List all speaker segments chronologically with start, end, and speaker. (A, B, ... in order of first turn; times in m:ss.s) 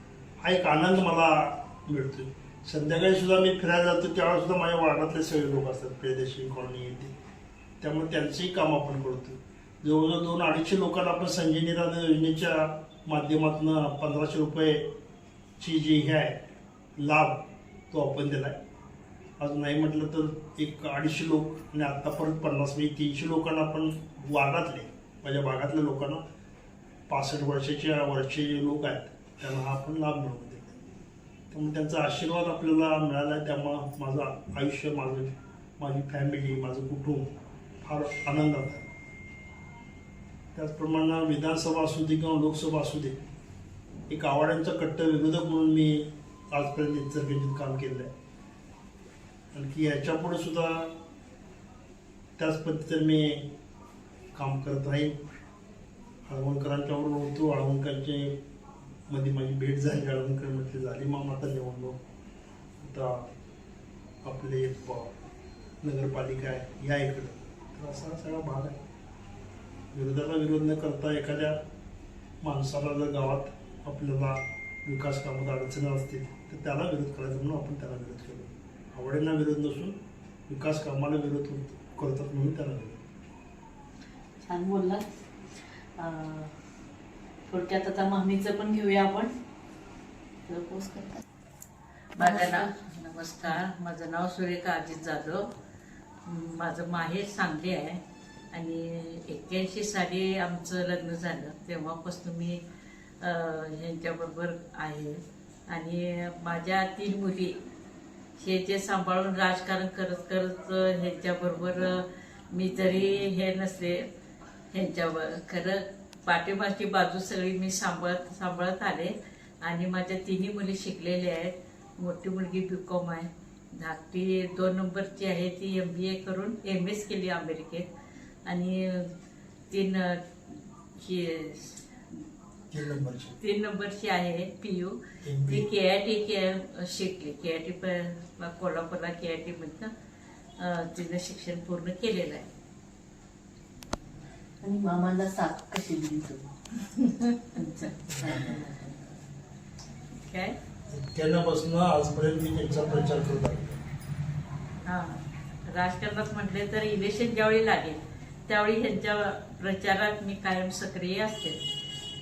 0:00.4-0:07.1 A
0:07.8-0:14.9 A
0:15.6-0:16.4 A
0:17.0-0:18.6 A
0:19.4-0:26.2 A
0:27.1-0:30.8 A
0:31.5-0:37.3 A
0:37.8-0:38.9 A
0:40.5-0:43.2 A
0:44.1-0:48.1 A
0:49.5-0:50.9 A
0:52.4-0:53.5 A
0:54.3-0:55.2 A
0:56.2-0:58.4 A
0:59.1-1:02.0 A
1:02.8-1:03.3 A
1:04.2-1:05.1 A
1:05.8-1:08.8 A
1:09.9-1:11.6 A
1:12.4-1:20.0 A
1:20.5-1:23.0 A
1:24.4-1:25.2 B
1:26.0-1:26.5 B
1:27.5-1:29.3 B
1:30.5-1:31.2 B
1:32.2-1:32.7 B
1:32.2-1:35.5 C
1:36.2-1:42.6 C
1:43.2-1:47.6 C
1:48.4-1:54.0 C
1:54.7-2:07.9 C
2:08.4-2:09.1 C
2:09.7-2:12.2 C
2:12.7-2:13.4 A
2:13.4-2:19.9 C
2:15.2-2:15.7 A
2:20.6-2:22.5 C
2:24.6-2:26.5 B
2:27.1-2:27.9 C
2:27.5-2:28.8 B
2:28.1-2:28.6 A
2:30.1-2:30.6 C
2:30.9-2:33.8 A
2:34.8-2:41.6 C